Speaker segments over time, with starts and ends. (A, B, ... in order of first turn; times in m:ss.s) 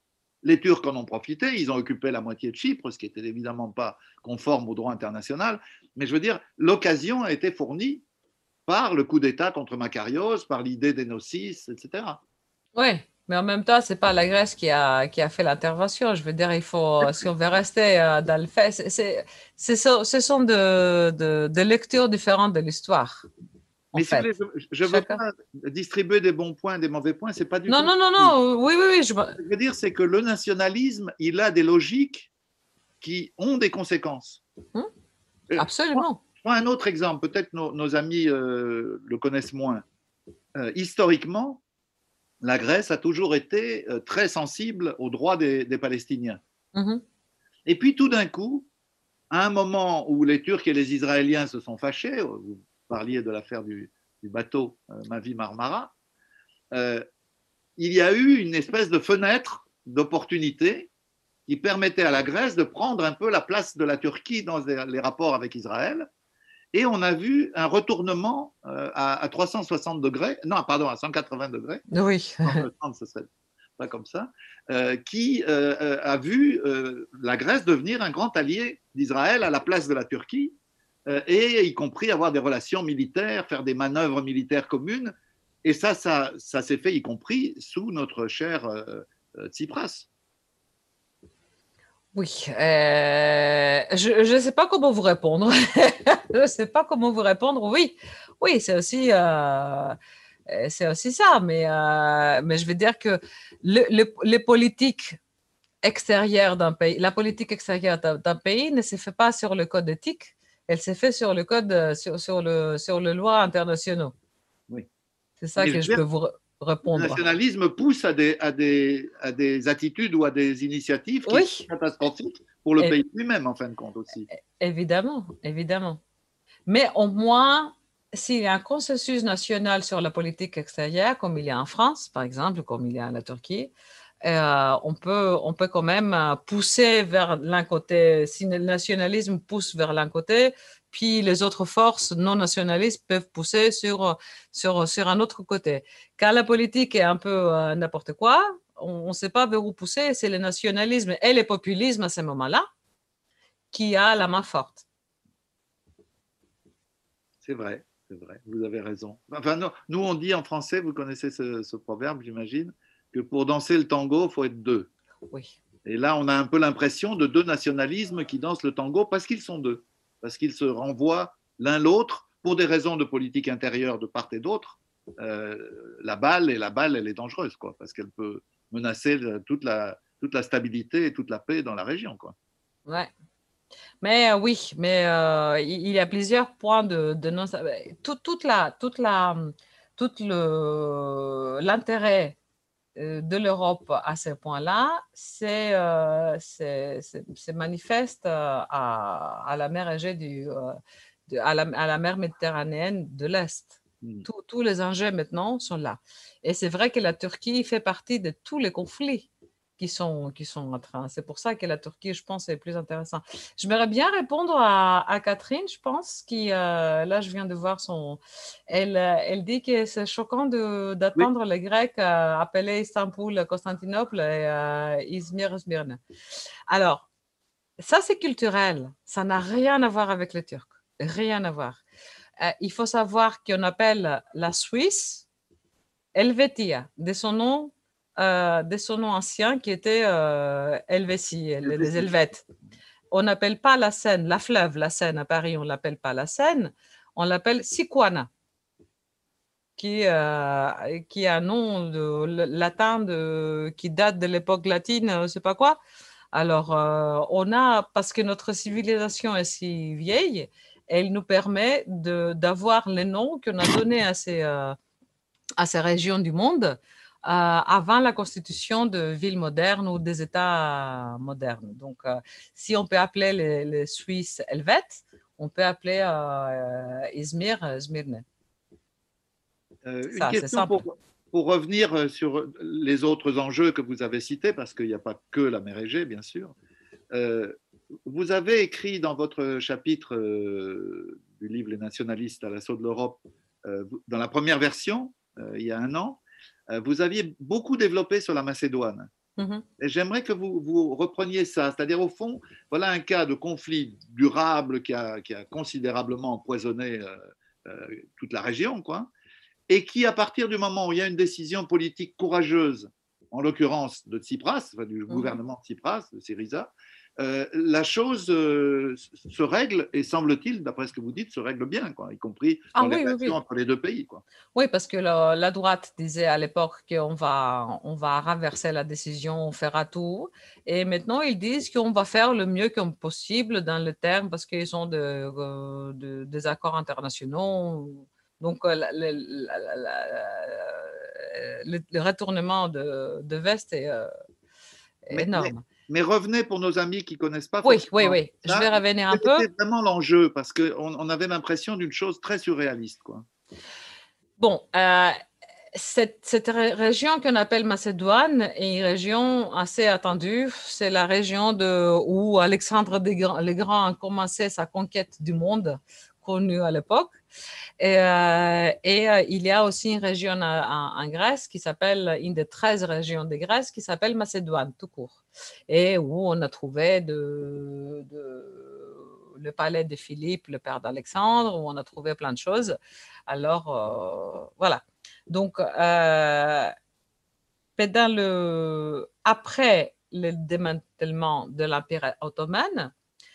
0:00.4-0:08.0 A
0:08.7-0:12.2 A
0:12.8-0:23.3 B
0:23.9-0:24.3 B
0:24.0-0:28.4 A
0:24.9-0:25.2 B
0:27.7-0:29.4 B
0:29.4-0:32.3 A
0:33.0-0:34.4 A
0:35.5-0:39.8 A
0:35.6-0:36.2 B
0:40.6-0:41.6 A
0:42.4-0:46.4 A
0:46.8-0:47.0 B
0:47.7-0:48.7 A
0:49.3-0:55.9 A
0:56.7-0:57.0 A
0:57.8-1:00.9 A
1:01.5-1:06.1 A
1:06.7-1:11.8 A
1:11.9-1:12.6 B
1:12.4-1:30.1 A
1:32.1-1:40.0 B
1:40.5-1:45.2 B
1:45.8-1:54.1 B
1:55.4-1:57.2 B
1:55.6-1:56.0 A
1:56.9-2:04.3 A
2:01.3-2:01.7 B
2:04.6-2:06.0 B
2:06.7-2:13.7 B
2:14.2-2:32.6 B
2:33.7-2:34.8 B
2:37.4-2:44.9 A
2:45.8-3:02.4 A
3:02.9-3:03.1 B
3:04.0-3:12.4 B
3:13.0-3:20.8 B
3:21.3-3:46.0 B
3:24.0-3:24.3 A
3:46.7-3:47.1 B
3:47.8-3:51.8 B
3:52.4-3:55.3 B
3:56.2-4:02.4 B
4:01.6-4:02.1 A
4:03.1-4:08.3 B
4:09.8-4:15.8 B
4:16.3-4:24.8 B
4:25.6-4:38.2 B
4:39.8-4:46.5 A
4:40.1-4:40.8 B
4:47.1-4:47.6 A
4:48.1-4:59.1 A
4:59.4-4:59.6 B
4:59.8-5:09.1 A
5:09.7-5:24.2 A
5:15.1-5:15.4 B
5:22.8-5:23.4 B
5:24.6-5:44.1 B
5:45.1-5:45.6 B
5:45.1-5:53.2 A
5:47.6-5:49.5 B
5:54.4-5:55.2 B
5:55.7-6:07.2 B
6:07.8-6:22.8 B
6:23.3-6:26.7 B
6:27.8-6:32.9 B